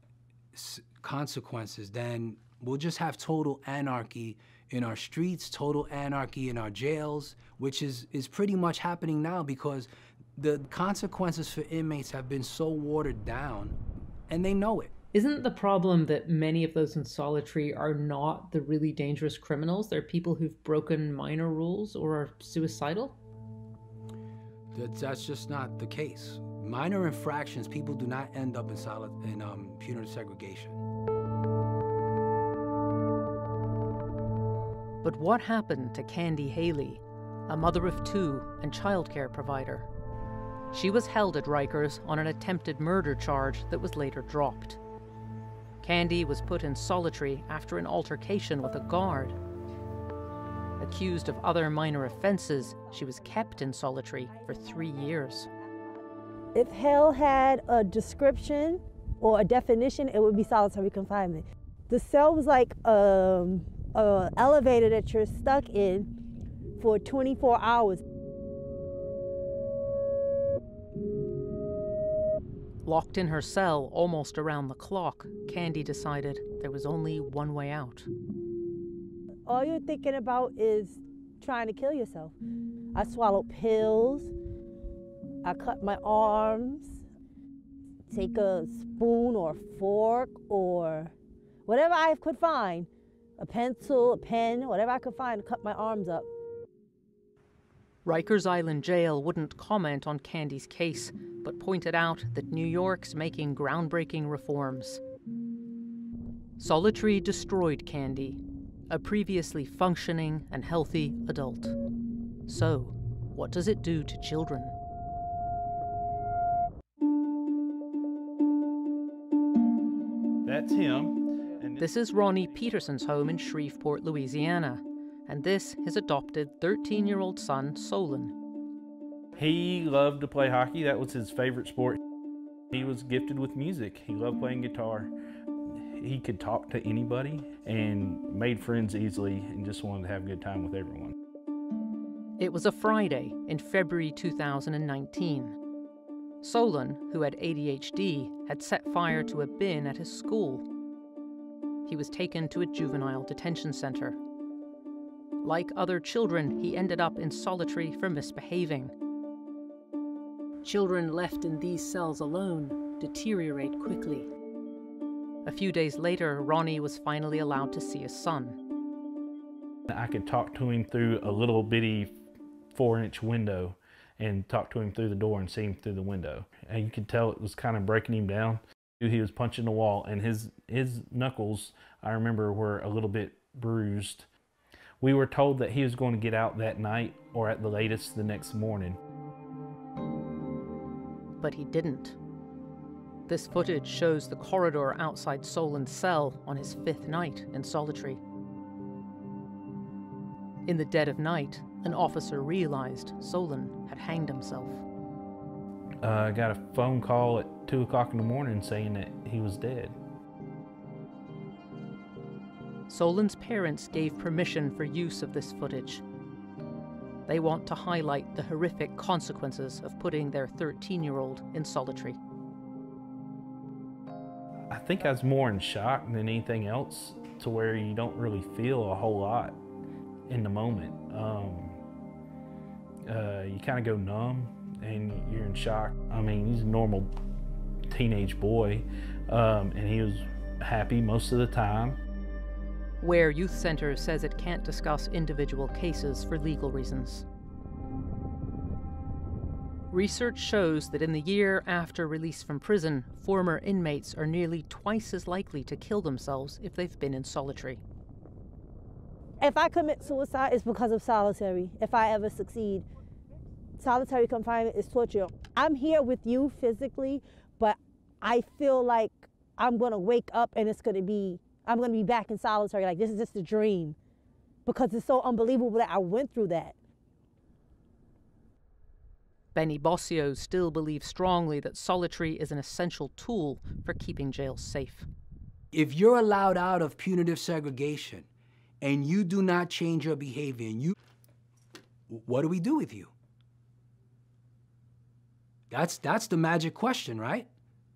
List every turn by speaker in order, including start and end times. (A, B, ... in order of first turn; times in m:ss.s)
0:00.5-0:13.7 A
0:14.3-0:14.9 A
0:15.1-0:23.2 B
0:24.7-0:30.8 A
0:35.0-0:39.9 C
0:40.7-0:44.8 C
0:45.8-0:49.4 C
0:50.8-0:55.5 C
0:56.5-1:06.1 D
1:06.8-1:08.0 D
1:12.8-1:18.1 C
1:19.5-1:22.3 D
1:22.9-1:24.3 D
1:25.4-1:27.0 D
1:28.1-1:31.1 D
1:31.6-1:36.3 D
1:38.0-1:45.0 C
1:46.6-1:51.7 C
1:52.5-1:54.7 C
2:00.4-2:01.9 E
2:01.8-2:08.3 C
2:09.4-2:12.0 E
2:12.7-2:15.1 E
2:16.0-2:21.1 E
2:22.4-2:25.6 C
2:26.4-2:30.7 C
2:31.8-2:34.2 C
2:35.4-2:38.9 C
2:40.6-2:44.3 C
2:45.4-2:48.6 C
2:49.9-2:52.1 E
2:52.7-3:04.2 E
3:05.0-3:09.0 E
3:11.4-3:12.2 C
3:13.3-3:18.2 C
3:20.6-3:24.8 C
3:26.0-3:30.0 E
3:32.9-3:36.0 C
3:37.3-3:42.2 C
3:44.7-3:49.6 E
3:50.3-3:51.8 E
3:53.0-3:57.1 E
3:57.9-4:02.0 E
4:03.0-4:07.2 C
4:09.9-4:17.8 C
4:19.4-4:22.8 D
4:23.8-4:34.0 D
4:34.6-4:36.7 D
4:39.5-4:45.1 C
4:45.7-4:48.2 A
4:48.8-4:50.9 A
4:52.1-4:53.1 A
4:55.7-4:57.5 A